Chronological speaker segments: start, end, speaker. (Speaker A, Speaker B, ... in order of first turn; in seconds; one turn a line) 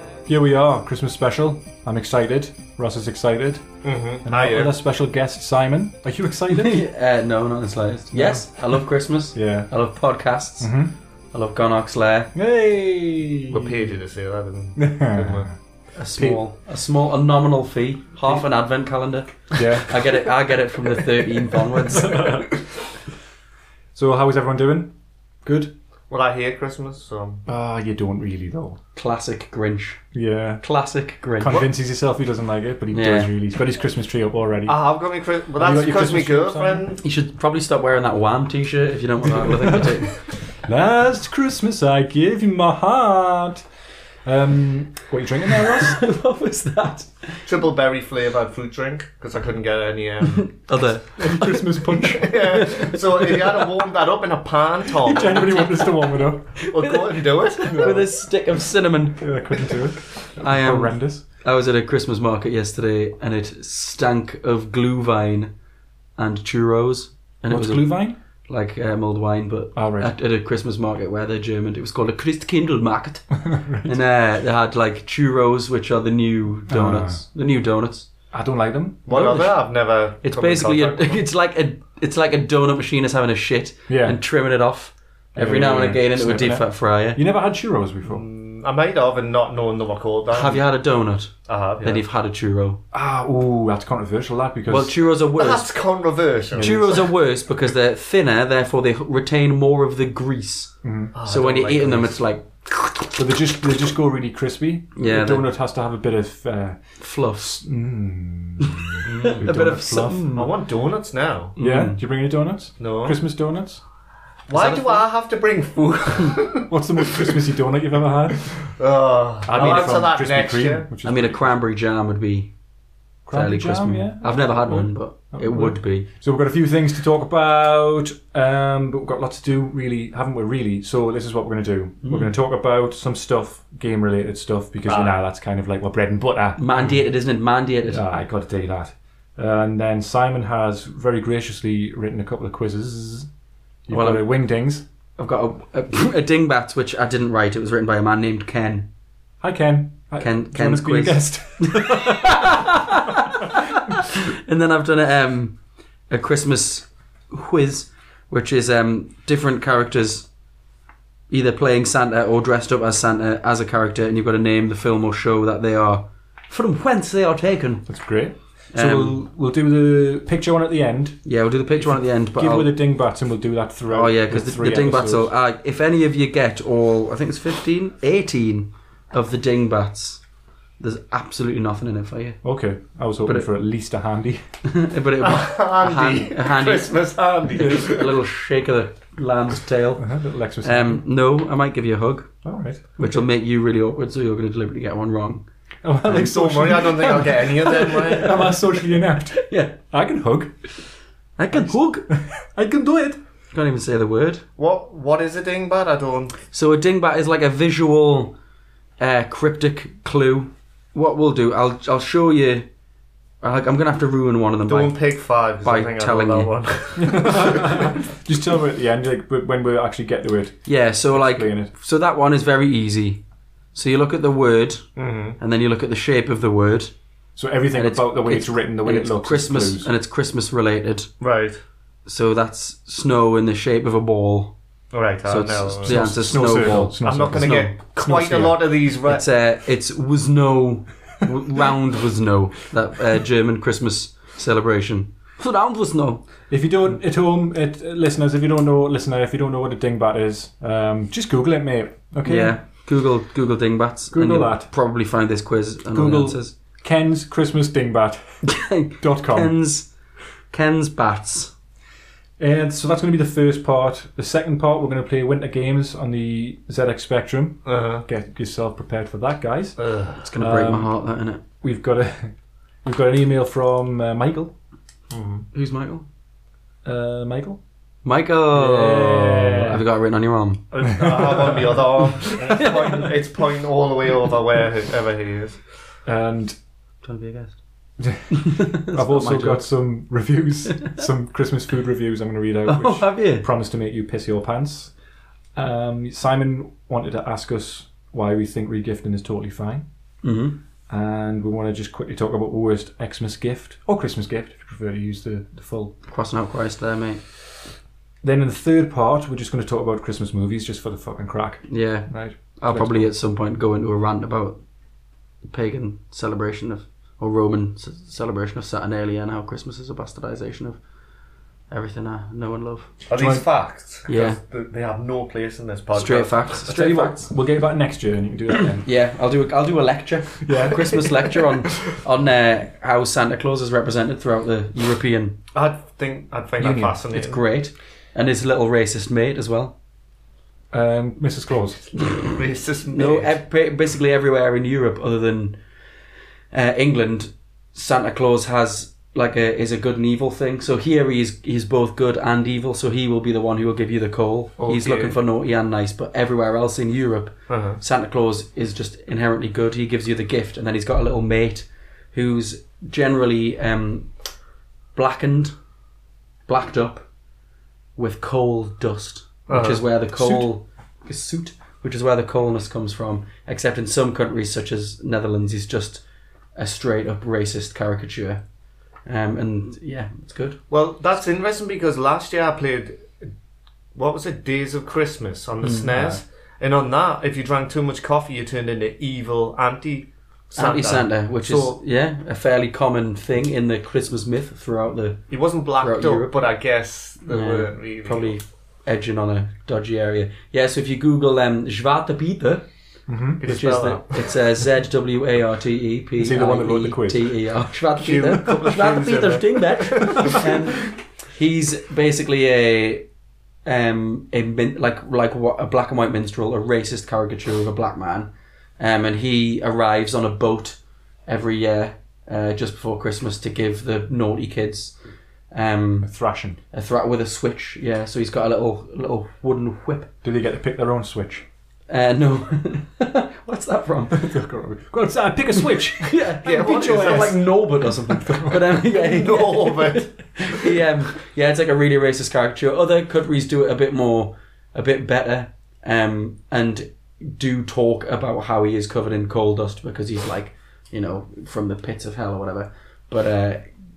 Speaker A: 0.3-6.8
Speaker B: 3.8-4.7
Speaker C: 6.5-10.7
Speaker A: 8.1-8.8
Speaker A: 9.3-9.7
Speaker A: 10.6-10.9
Speaker C: 11.3-12.3
Speaker A: 12.3-13.8
Speaker B: 13.5-15.5
Speaker A: 14.8-15.6
Speaker C: 15.9-22.2
Speaker A: 16.1-16.4
Speaker A: 19.5-20.0
Speaker A: 21.7-22.8
Speaker A: 23.9-25.7
Speaker B: 26.1-27.4
Speaker A: 27.4-28.8
Speaker C: 28.9-30.0
Speaker A: 30.1-30.6
Speaker C: 30.6-31.6
Speaker A: 31.4-34.8
Speaker C: 32.9-33.3
Speaker B: 34.7-37.0
Speaker A: 35.6-36.9
Speaker C: 37.0-40.1
Speaker A: 39.2-43.7
Speaker A: 44.2-46.0
Speaker C: 45.6-47.5
Speaker B: 47.5-50.7
Speaker C: 50.4-53.6
Speaker A: 51.2-52.6
Speaker B: 52.2-55.6
Speaker A: 55.0-56.5
Speaker C: 55.2-59.3
Speaker B: 56.7-58.1
Speaker A: 57.7-58.0
Speaker A: 59.2-61.2
Speaker C: 60.4-65.5
Speaker C: 66.2-78.1
Speaker A: 67.4-68.2
Speaker A: 69.7-70.1
Speaker A: 73.4-74.0
Speaker A: 76.7-77.2
Speaker A: 78.3-79.0
Speaker B: 79.1-81.2
Speaker C: 79.1-79.6
Speaker C: 80.2-87.2
Speaker A: 83.9-84.2
Speaker A: 85.3-88.2
Speaker B: 88.0-90.7
Speaker C: 90.3-92.8
Speaker B: 91.5-92.0
Speaker A: 92.9-94.9
Speaker C: 94.7-95.7
Speaker B: 95.3-97.1
Speaker A: 96.6-97.0
Speaker C: 96.6-103.1
Speaker A: 100.8-101.2
Speaker B: 101.2-102.2
Speaker A: 103.2-110.5
Speaker C: 105.0-105.5
Speaker C: 107.0-107.6
Speaker C: 108.6-110.4
Speaker B: 109.1-109.4
Speaker B: 110.3-111.5
Speaker C: 111.6-112.0
Speaker A: 111.6-113.8
Speaker B: 112.8-113.2
Speaker B: 114.5-117.3
Speaker C: 114.5-115.1
Speaker A: 116.7-118.6
Speaker B: 118.7-120.9
Speaker A: 119.5-121.5
Speaker C: 119.6-119.9
Speaker C: 121.0-122.5
Speaker A: 123.2-137.0
Speaker C: 123.3-126.1
Speaker C: 132.0-132.3
Speaker B: 134.8-135.2
Speaker C: 136.6-138.1
Speaker A: 137.9-143.3
Speaker A: 143.9-144.8
Speaker C: 143.9-144.3
Speaker C: 145.2-148.9
Speaker A: 149.4-152.8
Speaker C: 150.2-155.6
Speaker C: 156.1-160.3
Speaker C: 161.3-167.9
Speaker A: 167.9-175.3
Speaker C: 168.7-169.2
Speaker C: 171.2-172.8
Speaker C: 173.9-180.2
Speaker C: 180.8-182.4
Speaker A: 182.4-184.4
Speaker C: 184.7-186.9
Speaker B: 185.2-188.2
Speaker C: 187.5-190.1
Speaker A: 190.0-191.0
Speaker C: 190.6-192.4
Speaker A: 192.4-193.2
Speaker C: 193.0-195.4
Speaker A: 195.8-200.8
Speaker B: 196.1-198.5
Speaker C: 197.7-198.6
Speaker C: 199.3-199.8
Speaker C: 201.4-202.1
Speaker A: 201.5-203.2
Speaker C: 203.5-204.4
Speaker B: 204.6-206.3
Speaker C: 206.5-208.3
Speaker C: 209.0-212.7
Speaker C: 213.4-215.0
Speaker B: 214.7-217.8
Speaker C: 215.6-216.5
Speaker A: 217.0-221.7
Speaker C: 220.7-223.2
Speaker C: 223.7-224.8
Speaker B: 225.0-225.4
Speaker C: 225.4-226.9
Speaker A: 227.3-229.9
Speaker C: 227.7-231.1
Speaker B: 231.2-231.6
Speaker C: 232.1-234.5
Speaker B: 234.9-239.3
Speaker C: 235.3-237.7
Speaker A: 235.8-238.6
Speaker C: 239.1-246.2
Speaker A: 246.5-252.6
Speaker C: 252.2-256.5
Speaker A: 254.1-254.7
Speaker A: 255.9-258.4
Speaker C: 258.4-259.9
Speaker A: 259.0-259.6
Speaker C: 260.5-261.5
Speaker A: 262.4-269.8
Speaker B: 267.6-268.0
Speaker B: 269.8-270.2
Speaker C: 270.2-271.4
Speaker A: 270.4-270.9
Speaker A: 271.6-274.5
Speaker B: 275.1-275.4
Speaker C: 275.5-276.1
Speaker A: 276.9-277.6
Speaker C: 278.0-280.6
Speaker A: 278.5-279.8
Speaker B: 280.7-285.6
Speaker A: 280.9-281.8
Speaker C: 282.4-283.1
Speaker A: 286.1-286.6
Speaker C: 287.0-287.6
Speaker A: 288.0-294.9
Speaker C: 288.3-289.7
Speaker C: 292.7-293.5
Speaker A: 295.5-299.9
Speaker C: 300.2-300.6
Speaker A: 300.9-305.9
Speaker C: 306.1-307.2
Speaker A: 308.2-313.1
Speaker C: 311.6-314.6
Speaker C: 315.4-320.8
Speaker C: 321.7-322.9
Speaker B: 323.1-326.4
Speaker A: 323.1-323.5
Speaker C: 324.1-324.4
Speaker C: 325.9-327.3
Speaker A: 326.6-328.9
Speaker C: 328.8-335.4
Speaker A: 330.4-331.5
Speaker B: 335.5-337.4
Speaker A: 336.6-337.0
Speaker C: 337.1-339.8
Speaker A: 340.7-341.9
Speaker B: 342.0-343.4
Speaker C: 342.0-342.3
Speaker C: 342.9-345.6
Speaker C: 346.5-364.1
Speaker B: 354.6-355.2
Speaker B: 357.5-357.8
Speaker C: 364.9-365.5
Speaker C: 366.5-367.1
Speaker C: 368.0-376.0
Speaker B: 369.5-369.8
Speaker A: 370.1-370.5
Speaker C: 376.6-378.4
Speaker C: 379.1-380.6
Speaker B: 380.7-383.3
Speaker B: 383.9-391.8
Speaker A: 385.9-386.2
Speaker C: 390.5-395.2
Speaker B: 395.3-398.4
Speaker C: 395.8-396.3
Speaker C: 397.3-402.6
Speaker A: 403.1-403.4
Speaker B: 403.4-404.4
Speaker C: 403.4-413.1
Speaker A: 406.2-407.4
Speaker B: 408.0-410.5
Speaker C: 413.6-425.0
Speaker C: 425.5-426.1
Speaker A: 426.0-426.6
Speaker C: 426.7-430.1
Speaker A: 430.2-431.5
Speaker C: 431.9-434.2
Speaker A: 434.1-436.2
Speaker C: 436.0-453.7
Speaker B: 436.4-437.5
Speaker A: 438.2-438.6
Speaker B: 438.8-440.8